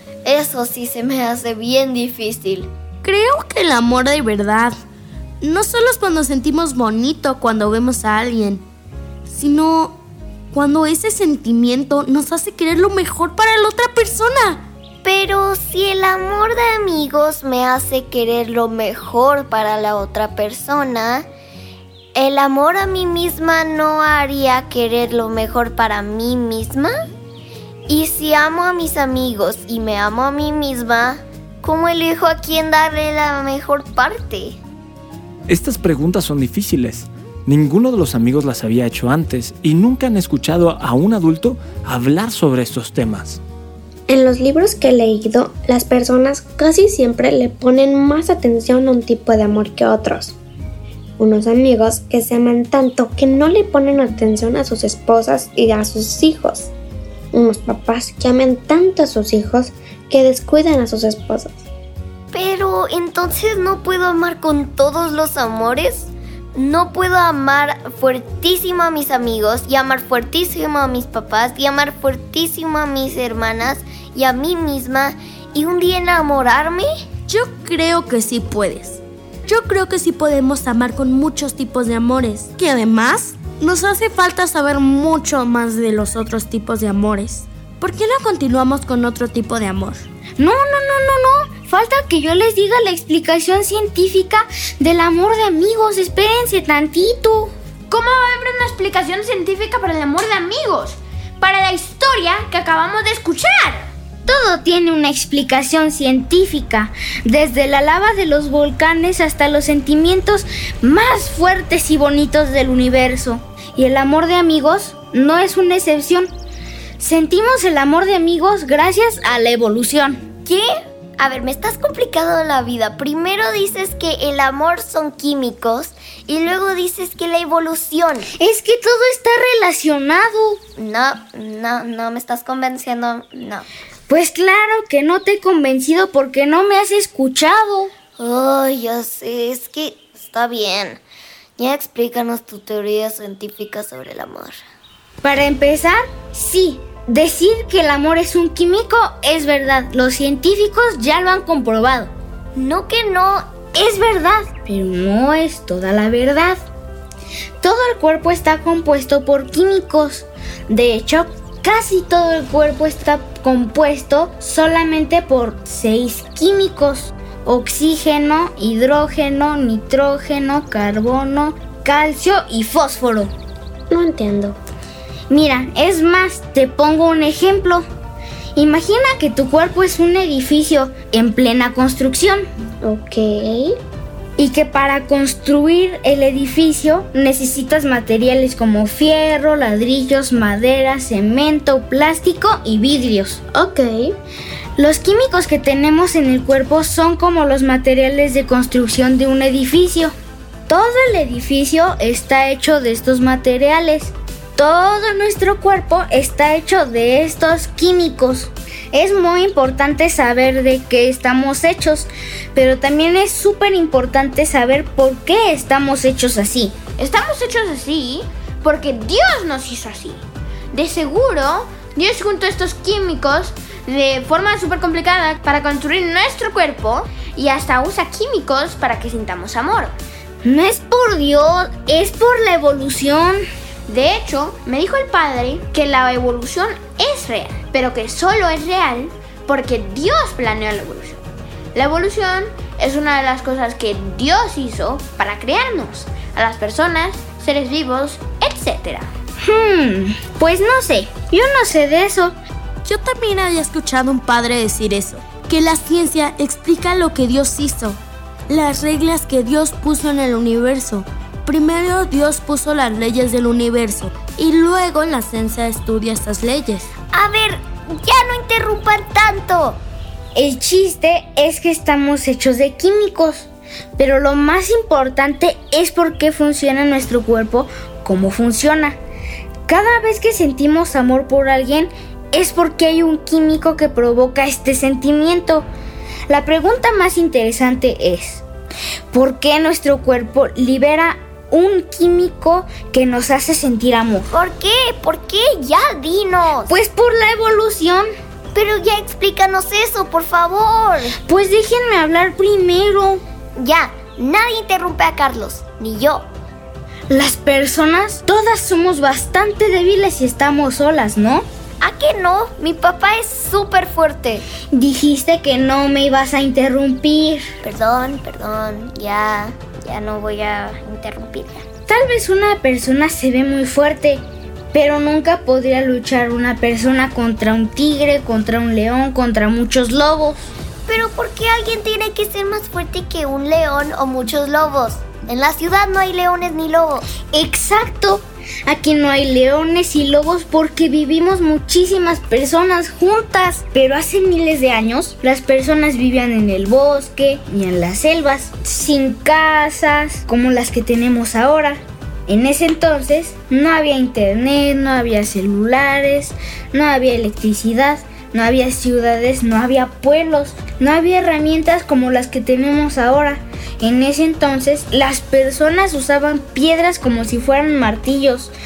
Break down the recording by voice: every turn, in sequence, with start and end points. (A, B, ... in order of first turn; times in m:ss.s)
0:00.2-0:02.7 A
0:03.0-0:04.8 B
0:05.4-0:08.6 B
0:09.2-0:10.0 B
0:10.5-0:14.6 B
0:15.0-0:21.2 A
0:22.1-0:26.9 A
0:27.9-0:34.6 A
0:35.5-0:43.4 C
0:44.1-0:50.4 D
0:51.2-0:56.7 D
0:57.3-1:01.6 D
1:02.3-1:16.9 A
1:17.3-1:30.1 B
1:30.4-1:37.5 E
1:37.9-1:43.9 F
1:44.3-1:56.3 E
1:57.0-2:00.2 E
2:00.4-2:08.3 A
2:08.4-2:10.6 E
2:10.8-2:13.7 A
2:14.1-2:17.9 E
2:18.2-2:21.0 A
2:21.6-2:24.6 A
2:25.2-2:32.1 E
2:32.5-2:33.5 A
2:33.7-2:36.6 E
2:37.6-2:53.3 E
2:53.9-2:54.6 D
2:55.3-2:57.8 E
2:58.6-3:02.4 E
3:02.8-3:03.7 D
3:04.4-3:13.4 E
3:13.5-3:14.1 D
3:14.8-3:20.1 E
3:20.7-3:36.8 E
3:37.0-3:49.9 F
3:50.4-3:53.4 E
3:53.9-4:01.2 F
4:01.7-4:09.1 F
4:09.4-4:12.4 E
4:12.8-4:26.9 B
4:27.1-4:29.8 A
4:30.3-4:39.0 E
4:39.7-4:45.7 E
4:46.3-4:48.4 E
4:49.1-4:54.3 E
4:54.3-4:56.7 A
4:56.7-4:58.0 E
4:58.5-5:01.2 A
5:01.2-5:03.2 E
5:03.6-5:06.2 A
5:07.1-5:11.4 E
5:11.8-5:14.4 A
5:14.7-5:17.5 E
5:17.6-5:21.6 A
5:21.9-5:30.5 E
5:30.9-5:37.0 A
5:37.3-6:08.5 E